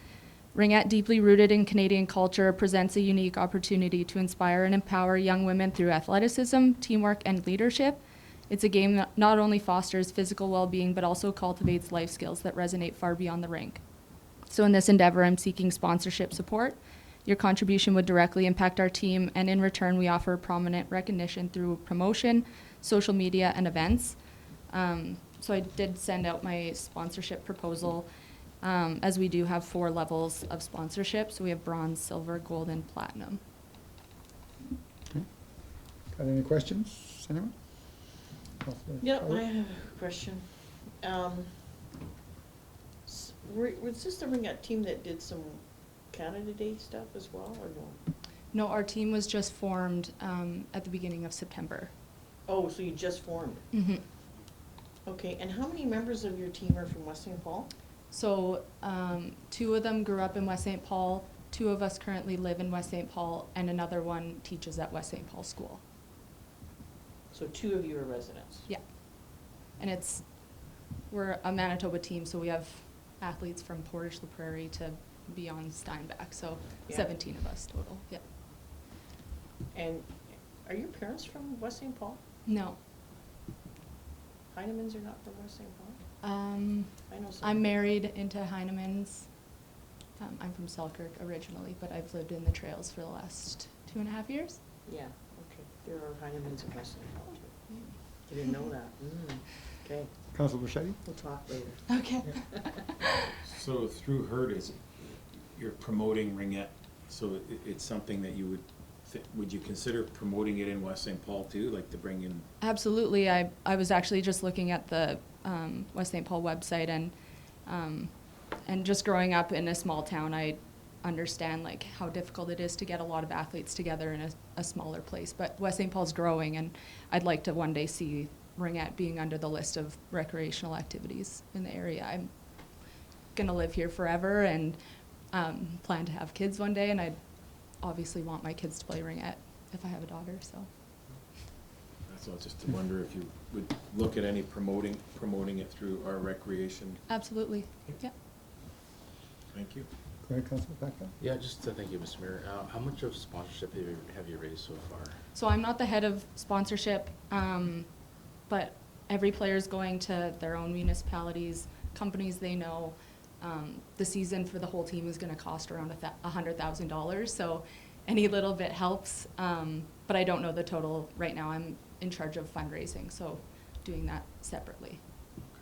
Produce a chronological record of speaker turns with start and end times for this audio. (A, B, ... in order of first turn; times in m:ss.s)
0:00.5-0:13.8 A
0:14.5-0:28.1 A
0:28.6-0:33.4 A
0:36.1-0:39.4 B
0:39.0-0:41.5 C
0:43.0-0:48.0 C
0:48.5-0:51.9 A
0:52.5-0:53.7 C
0:53.7-0:54.0 A
0:55.0-0:57.7 C
0:58.1-1:05.8 A
1:07.3-1:08.7 C
1:08.7-1:10.3 A
1:11.1-1:18.2 A
1:19.7-1:22.2 C
1:22.5-1:22.8 A
1:24.5-1:26.0 C
1:26.2-1:29.3 A
1:27.1-1:27.7 C
1:30.2-1:34.6 A
1:34.9-1:40.1 C
1:40.3-1:41.0 B
1:41.0-1:42.1 C
1:41.9-1:43.1 A
1:43.4-1:52.5 D
1:52.6-1:57.2 A
1:57.7-2:12.4 A
2:13.3-2:14.8 A
2:15.3-2:20.7 A
2:22.1-2:27.0 D
2:27.1-2:28.1 A
2:29.5-2:29.9 D
2:30.2-2:31.2 B
2:31.2-2:35.2 E
2:35.4-2:37.9 A
2:38.4-2:55.0 A